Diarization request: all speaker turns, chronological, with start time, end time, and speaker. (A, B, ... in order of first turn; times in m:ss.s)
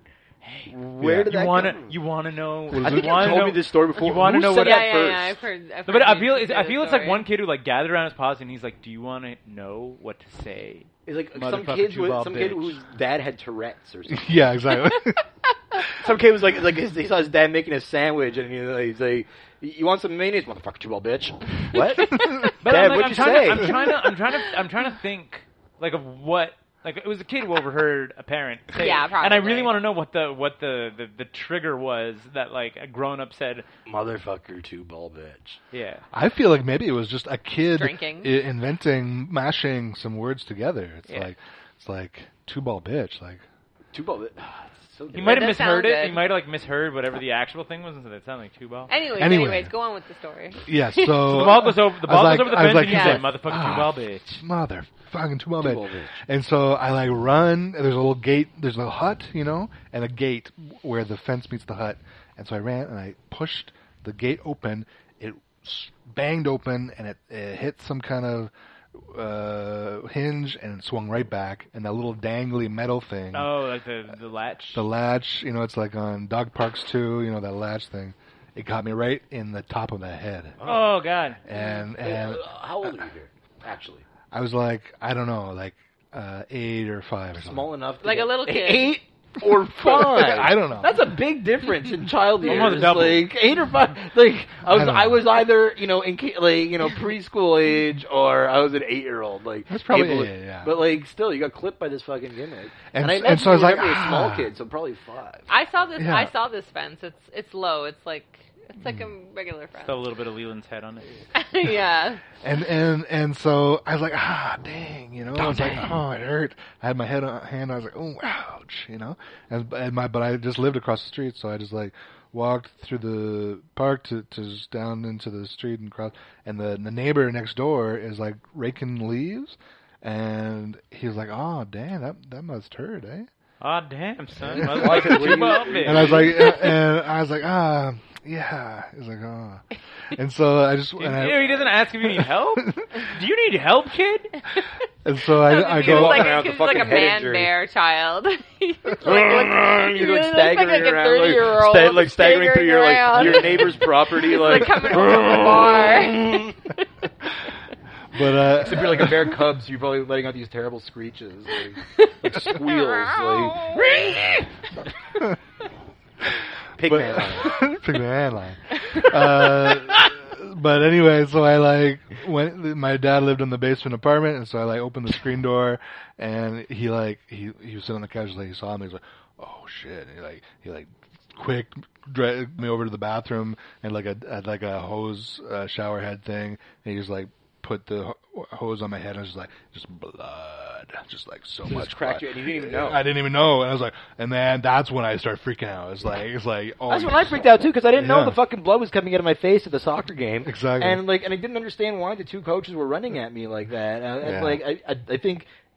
0:00.4-0:05.1 A
0:00.7-0:01.9 B
0:01.0-0:01.4 C
0:02.7-0:03.5 C
0:02.8-0:05.4 B
0:04.6-0:07.2 D
0:05.9-0:12.8 A
0:11.0-0:14.4 B
0:14.1-0:15.2 C
0:15.9-0:23.9 B
0:22.6-0:33.6 A
0:28.7-0:29.7 D
0:33.8-0:35.6 B
0:35.7-0:36.0 A
0:36.1-0:43.4 C
0:37.7-0:38.3 D
0:43.9-0:45.6 B
0:45.1-0:48.9 A
0:45.2-0:46.3 D
0:48.9-0:51.1 D
0:49.1-0:49.7 C
0:50.6-1:13.6 C
0:51.1-0:54.3 A
0:52.8-0:53.2 D
0:55.6-0:56.2 B
1:13.3-1:14.8 A
1:14.7-1:20.6 C
1:20.6-1:21.4 A
1:21.4-1:22.9 C
1:21.5-1:21.8 D
1:22.0-1:24.0 B
1:24.3-1:27.7 C
1:27.4-1:45.5 B
1:28.0-1:29.0 D
1:29.7-1:31.0 C
1:32.4-1:33.3 A
1:34.7-1:35.3 C
1:39.7-1:40.8 C
1:42.9-1:44.5 C
1:45.5-1:50.0 D
1:46.0-1:46.3 C
1:49.8-1:51.0 A
1:51.3-1:52.2 D
1:52.4-2:13.3 C
1:55.4-1:55.9 B
2:13.6-2:16.3 A
2:14.4-2:22.8 C
2:14.6-2:16.5 B
2:21.0-2:24.4 A
2:25.0-2:26.5 C
2:25.4-2:36.8 D
2:25.8-2:27.5 B
2:29.0-2:36.5 B
2:33.2-2:33.6 C
2:38.1-2:39.2 C
2:38.5-2:44.4 B
2:42.2-2:42.5 C
2:42.7-2:43.9 D
2:46.8-2:47.6 B
2:46.8-3:17.4 C
3:11.7-3:13.0 B
3:16.9-3:25.5 B
3:17.9-3:18.4 C
3:20.4-3:21.0 C
3:24.2-3:24.6 C